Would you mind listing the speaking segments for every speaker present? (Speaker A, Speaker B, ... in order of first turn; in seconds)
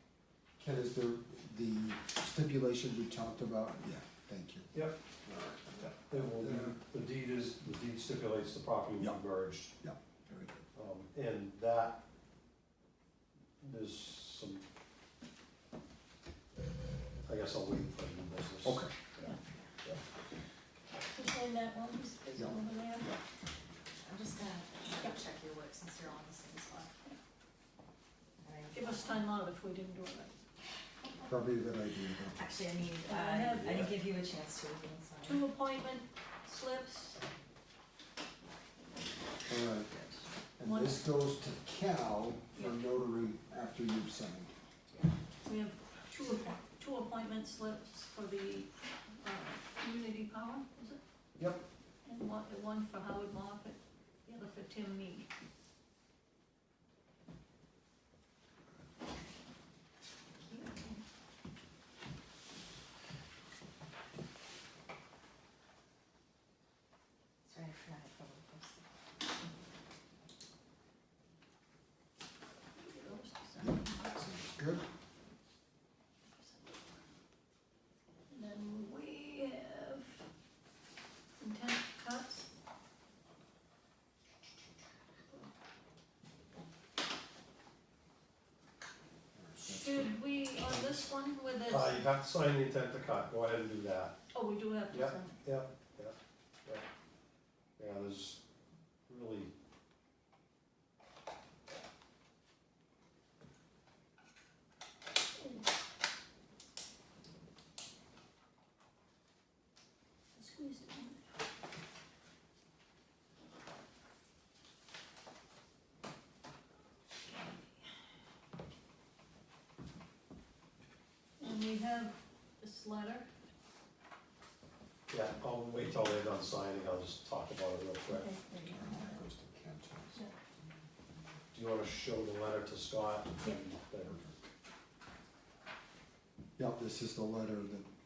Speaker A: 0.6-4.7, 5.2-6.8, 9.8-10.6, 18.6-18.9, 22.4-23.2, 31.2-32.4, 39.5-39.9, 40.6-44.5, 51.4-51.6, 73.6-74.8, 89.4-90.0, 128.7-130.2, 136.6-137.9
Speaker B: 4.7-5.0, 5.9-9.7, 10.8-12.0, 13.6-14.6, 17.2-18.9, 91.7-94.2, 94.9-96.2, 97.8-98.4, 99.1-99.5, 125.1-128.3, 131.5-134.3
Speaker C: 21.1-23.1, 28.7-30.3, 33.0-33.9, 35.2-37.2, 39.9-41.0, 45.5-51.0, 52.0-55.3, 60.5-61.0, 72.7-74.1, 76.3-76.9, 78.3-80.3, 81.4-82.5, 89.6-92.0, 94.3-95.4, 105.4-105.7, 110.3-111.2, 117.3-117.6, 121.4-123.3, 128.1-129.1
Speaker D: 24.0-26.9, 28.4-29.2, 32.3-35.5, 67.5-68.9